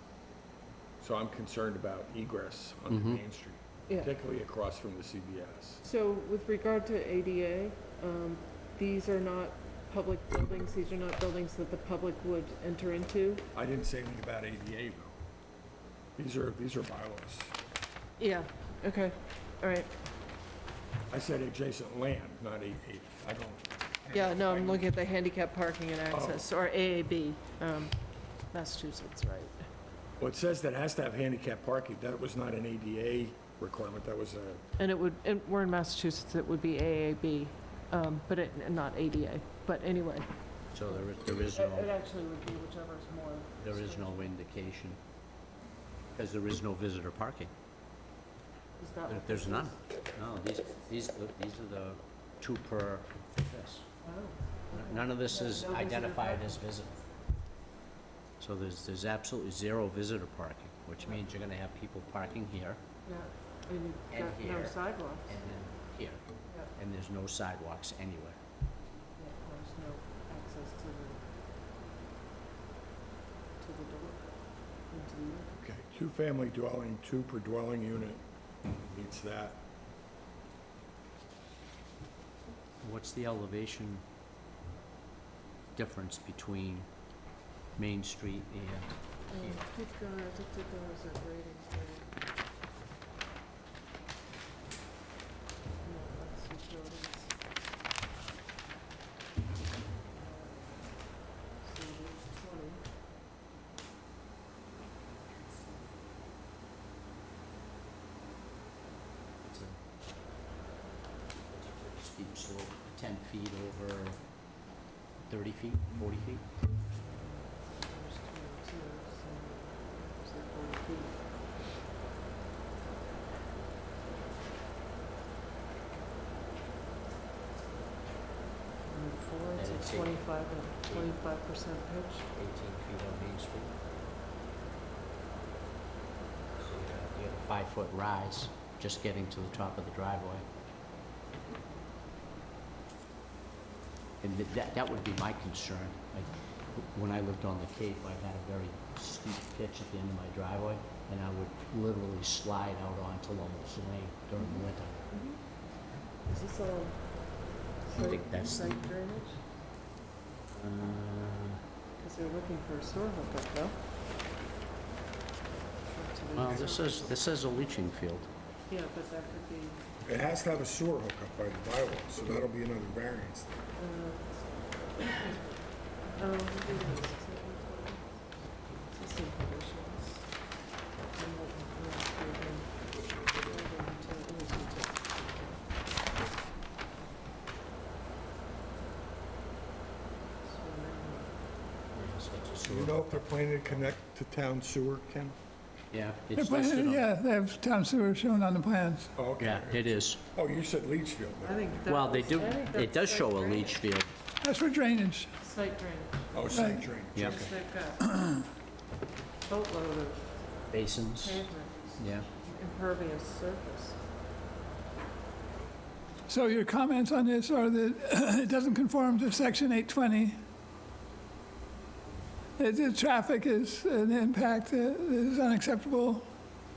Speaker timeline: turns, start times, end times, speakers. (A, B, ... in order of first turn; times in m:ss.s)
0:01.0-0:05.8 A
0:02.9-0:03.2 B
0:05.8-0:13.4 C
0:13.5-0:15.1 A
0:16.2-0:17.5 A
0:18.2-0:19.9 C
0:21.1-0:24.9 A
0:24.1-0:27.9 C
0:26.1-0:26.4 A
0:28.5-0:29.6 C
0:30.2-0:34.6 A
0:34.8-0:40.3 C
0:40.7-0:41.9 B
0:40.9-0:44.3 C
0:43.6-0:45.0 B
0:46.1-0:47.5 B
0:48.8-0:49.7 C
0:49.1-0:53.9 B
0:54.0-0:56.6 C
0:54.7-0:57.0 B
0:58.4-1:02.8 B
1:03.0-1:05.4 C
1:04.1-1:06.2 B
1:06.7-1:08.4 B
1:09.2-1:11.2 C
1:13.6-1:14.3 C
1:14.9-1:15.5 C
1:15.6-1:19.6 A
1:22.8-1:24.0 B
1:25.7-1:26.9 B
1:27.8-1:29.6 B
1:29.3-1:32.1 C
1:35.8-1:37.3 C
1:40.1-1:41.0 C
1:41.6-1:42.8 C
1:49.4-1:49.8 B
1:51.5-1:54.2 B
1:55.3-1:56.5 B
1:57.6-2:01.2 C
2:08.8-2:12.3 C
2:09.6-2:10.2 B
2:12.3-2:13.7 B
2:16.5-2:20.4 B
2:24.2-2:35.0 B
2:34.4-2:35.4 C
2:36.2-2:39.4 C
2:38.0-2:38.8 B
2:40.5-2:41.6 B
2:42.0-2:43.8 C
2:45.8-2:47.3 C
2:46.4-2:48.3 B
2:48.7-2:49.8 C
2:50.0-2:53.5 A
2:53.8-2:55.4 C
2:56.1-2:58.1 C
2:58.9-3:00.3 C
3:01.1-3:05.6 C
3:10.4-3:11.4 C
3:11.9-3:13.9 B
3:12.6-3:15.4 A
3:15.9-3:17.0 B
3:16.3-3:19.1 D
3:19.1-3:21.6 A
3:19.4-3:20.2 B
3:21.4-3:23.8 C
3:21.9-3:24.1 B
3:24.4-3:25.3 D
3:25.4-3:26.5 C
3:26.3-3:27.5 A
3:26.5-3:26.9 D
3:27.1-3:27.4 B
3:27.2-3:28.1 C
3:28.1-3:28.4 D
3:29.4-3:34.0 C
3:30.7-3:31.4 B
3:32.0-3:32.3 B
3:36.3-3:40.4 D
3:42.6-3:46.2 D